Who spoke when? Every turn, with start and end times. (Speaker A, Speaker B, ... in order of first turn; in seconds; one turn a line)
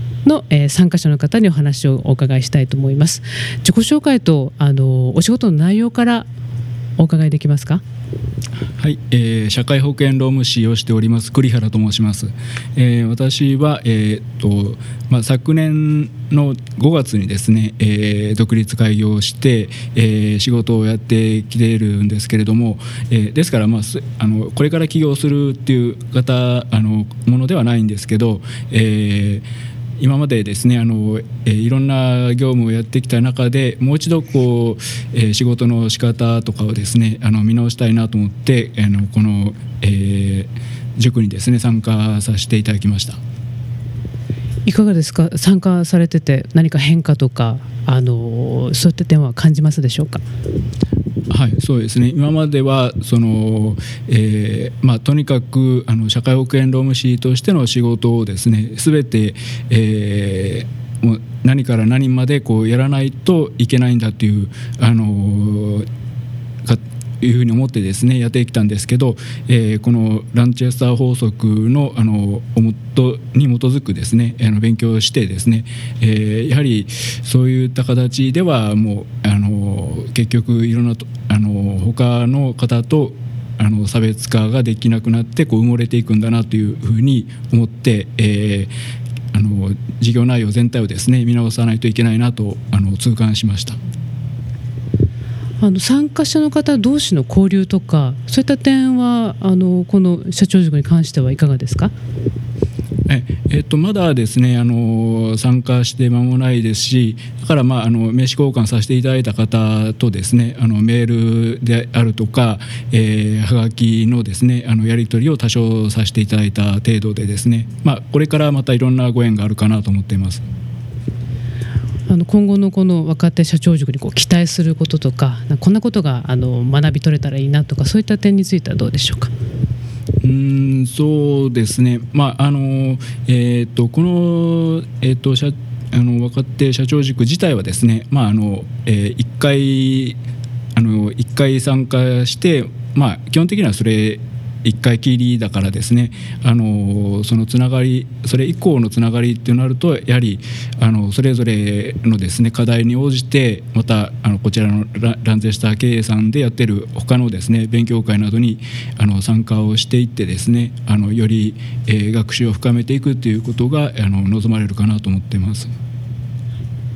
Speaker A: 0.2-6.3
Speaker A: 7.0-7.8
Speaker B: 8.8-29.4
Speaker B: 30.0-43.2
Speaker A: 44.6-50.2
Speaker B: 51.3-65.8
Speaker B: 66.6-88.7
Speaker B: 89.3-93.8
Speaker A: 95.6-101.9
Speaker B: 103.1-120.4
Speaker A: 122.1-129.3
Speaker B: 130.2-140.2
Speaker B: 140.8-165.7